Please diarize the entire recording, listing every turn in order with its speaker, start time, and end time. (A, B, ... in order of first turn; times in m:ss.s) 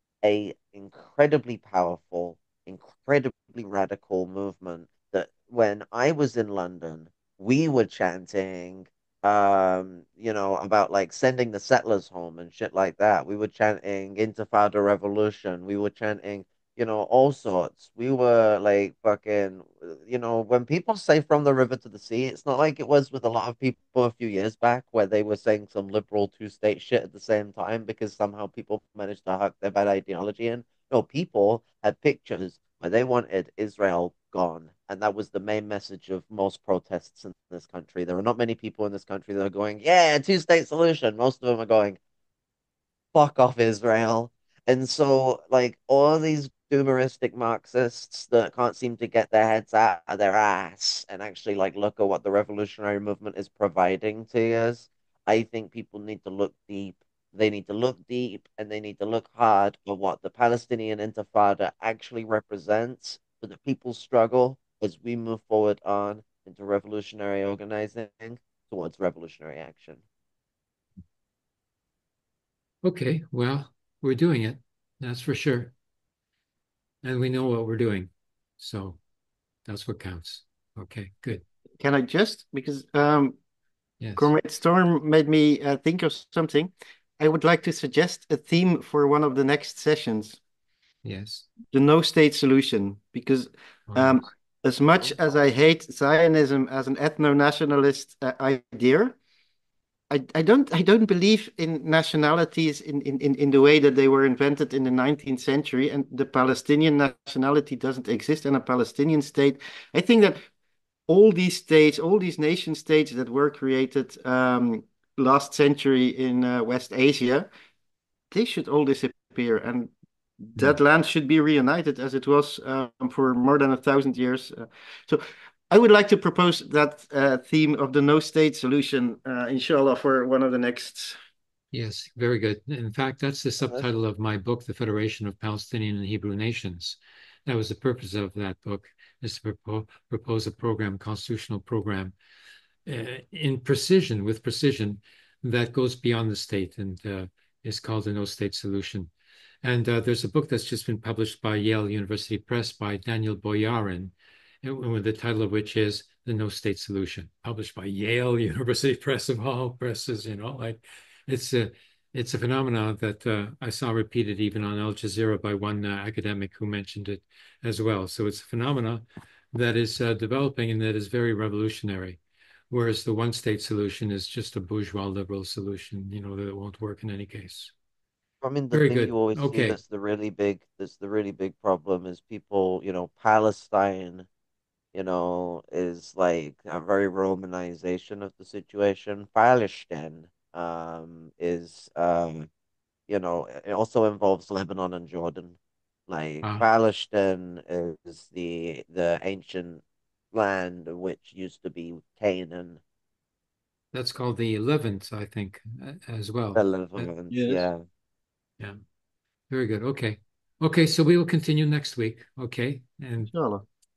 0:00.2-0:42.0 A
0:43.1-1:10.0 A
1:12.8-1:15.7 B
1:17.0-1:19.0 B
1:19.7-1:21.4 B
1:21.8-1:23.4 C
1:24.0-1:24.3 B
1:24.2-1:30.4 C
1:31.0-1:31.5 B
1:31.7-1:39.2 C
1:33.9-1:34.2 B
1:40.1-1:50.4 C
1:51.1-1:57.5 C
1:58.3-2:11.2 C
2:11.7-2:22.2 B
2:22.9-2:29.1 B
2:29.6-2:52.2 B
2:52.7-2:57.7 B
2:58.4-3:04.3 A
2:58.7-2:59.8 B
3:04.9-3:12.5 A
3:13.1-3:15.6 A
3:16.1-3:19.8 A
3:20.3-3:22.8 A
3:23.9-3:27.1 B
3:26.6-3:27.8 A
3:27.3-3:27.6 C
3:29.5-3:33.3 B
3:33.3-3:33.7 C